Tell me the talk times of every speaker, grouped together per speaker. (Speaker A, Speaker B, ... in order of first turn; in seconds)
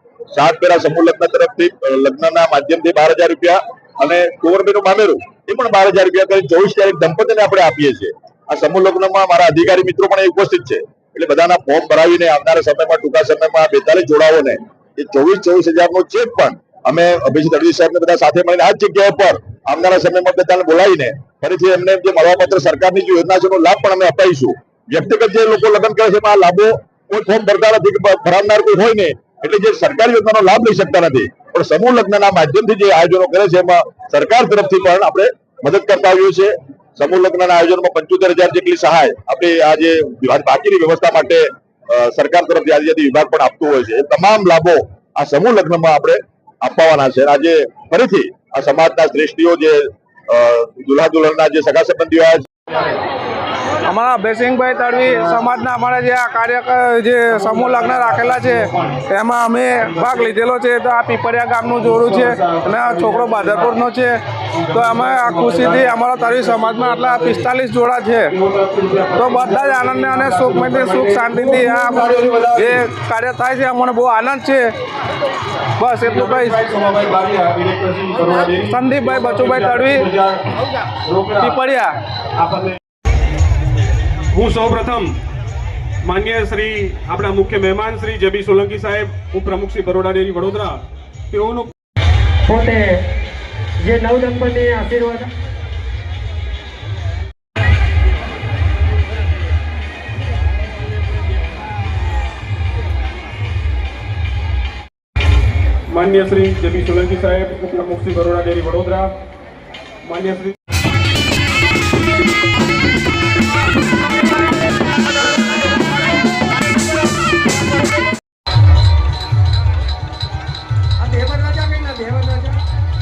Speaker A: 0.3-52.4
Speaker B: 53.9-64.2, 64.7-68.3, 69.2-74.7, 75.8-76.6, 78.6-80.1, 81.4-81.9
Speaker C: 57.3-59.0, 59.8-60.3, 61.8-63.8, 64.5-67.4, 68.3-72.8, 76.1-80.4, 81.0-81.6, 82.4-82.8, 84.3-85.1, 86.0-90.8, 91.3-91.7, 105.9-109.1, 110.0-110.5
Speaker D: 92.5-92.9, 93.8-95.3, 121.0-122.6